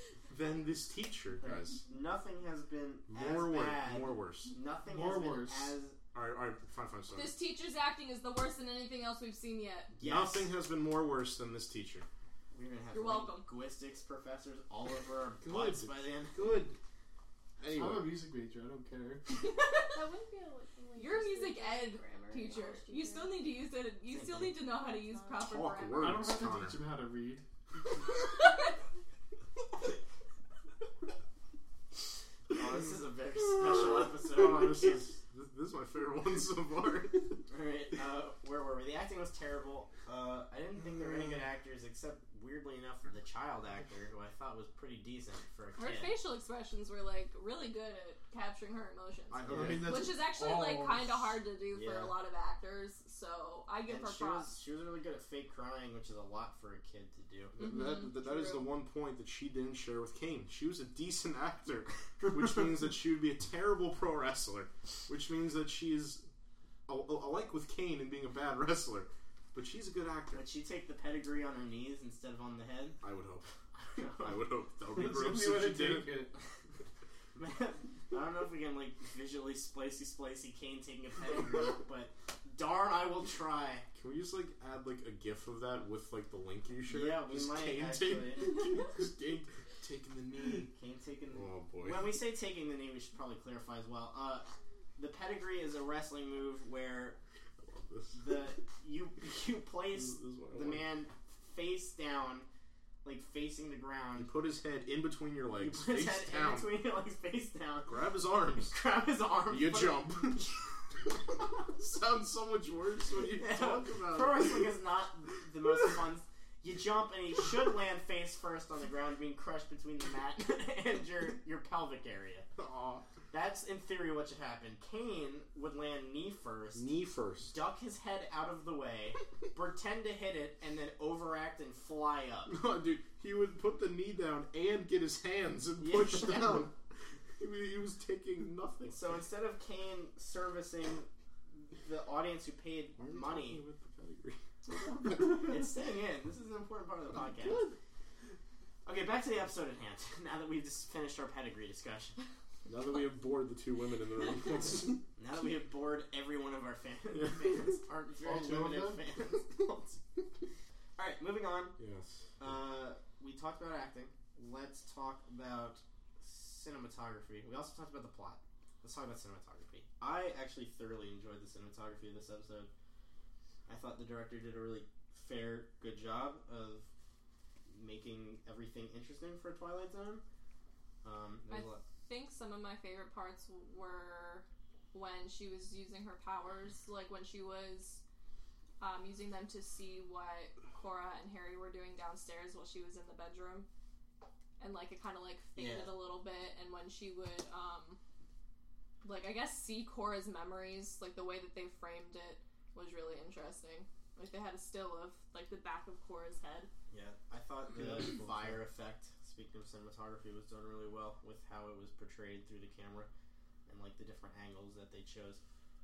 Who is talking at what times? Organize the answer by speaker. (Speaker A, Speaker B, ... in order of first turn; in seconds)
Speaker A: 0.3-1.8, 3.1-4.5, 6.1-7.4, 10.0-12.1, 15.4-16.8, 17.6-18.2, 25.4-26.8, 33.6-37.4, 41.0-41.3, 49.3-50.2, 57.6-66.2, 66.9-70.4, 73.0-73.5, 74.2-76.3, 84.0-90.7, 91.3-92.2, 97.6-98.3, 99.9-100.9, 104.2-106.8, 107.9-108.8, 109.5-110.6, 111.3-114.7, 122.6-123.0, 126.8-127.5, 132.5-136.7, 137.4-139.0, 143.0-145.5, 152.7-155.0, 157.1-157.6, 161.8-162.5, 207.8-208.6
Speaker B: 1.4-6.0, 10.0-10.5, 12.5-16.5, 24.1-24.6, 32.5-35.0, 37.5-46.1, 51.7-52.2, 53.9-57.5, 70.3-73.0, 73.7-74.4, 77.3-83.9, 86.9-88.6, 90.7-97.2, 98.1-102.5, 103.0-104.3, 105.6-107.9, 108.6-110.2, 113.3-122.5, 123.3-126.9, 127.5-132.6, 135.8-136.7, 138.9-143.6, 145.3-147.6, 148.8-152.2, 155.2-160.0, 161.0-161.8, 162.4-172.7, 173.7-176.9, 177.7-180.2, 181.0-181.8, 195.6-195.9, 206.9-213.1, 213.7-215.4
Speaker C: 4.9-5.8, 17.7-19.2, 26.0-27.4, 49.5-51.3, 74.9-76.3, 158.2-159.0
Speaker D: 7.1-9.9, 12.9-13.5, 19.4-19.9, 21.0-26.2, 45.8-54.5, 57.6-58.7, 181.5-188.0, 188.8-193.7, 194.6-198.0, 199.0-206.7
Speaker E: 19.9-23.5, 24.9-25.5